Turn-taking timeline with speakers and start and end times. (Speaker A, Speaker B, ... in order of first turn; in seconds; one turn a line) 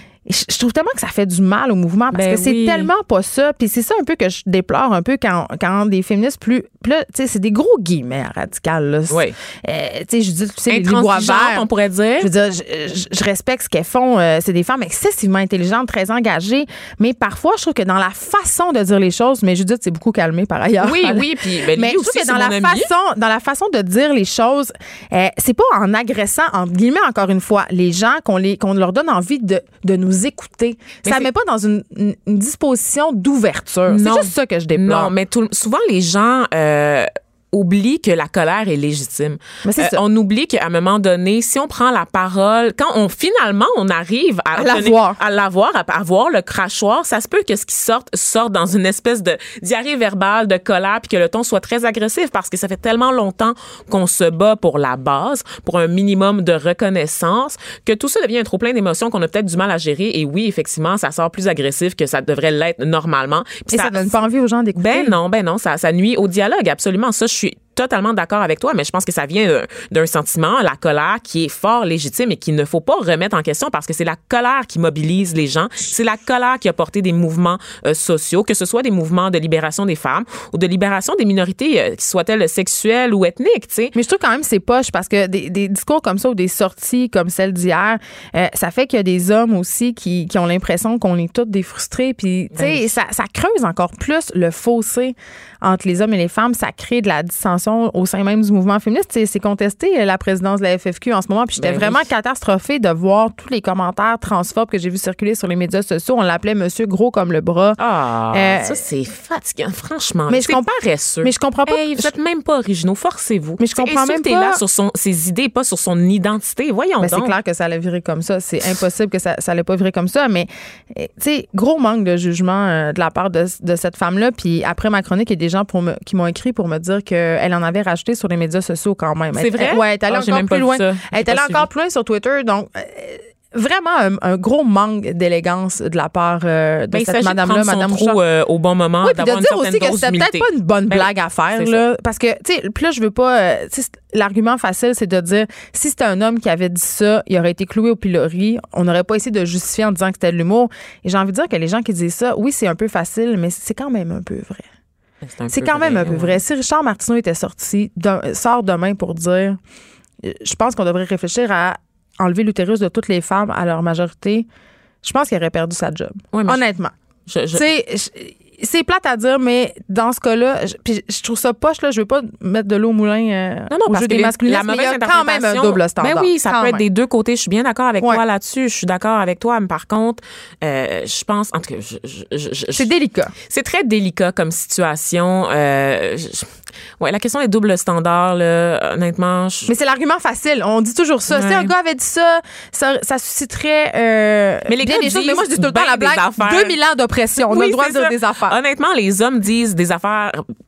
Speaker A: 0.2-11.7
Speaker B: 2.1-2.9
Speaker B: 9.1-9.3
Speaker B: 10.7-12.3
Speaker A: 12.2-35.1
Speaker B: 20.8-22.9
Speaker B: 33.9-64.2
Speaker A: 39.6-40.0
Speaker A: 44.5-45.2
Speaker A: 63.7-65.2
Speaker B: 64.8-83.9
Speaker A: 83.9-107.8
Speaker B: 92.5-92.8
Speaker B: 101.6-102.1
Speaker B: 107.8-117.3
Speaker A: 108.3-108.8
Speaker A: 110.3-112.1
Speaker A: 113.6-114.6
Speaker A: 117.0-138.2
Speaker B: 129.3-131.7
Speaker B: 136.9-141.8
Speaker A: 139.0-154.7
Speaker B: 155.3-156.4
Speaker A: 155.5-159.6
Speaker A: 160.2-164.5
Speaker A: 165.0-166.9
Speaker B: 166.3-166.6
Speaker B: 167.3-167.6
Speaker A: 167.5-176.8
Speaker B: 173.7-182.8
Speaker A: 182.7-183.3
Speaker B: 183.5-189.7
Speaker A: 189.7-198.6
Speaker B: 191.3-191.7
Speaker B: 194.7-196.8
Speaker B: 197.4-200.5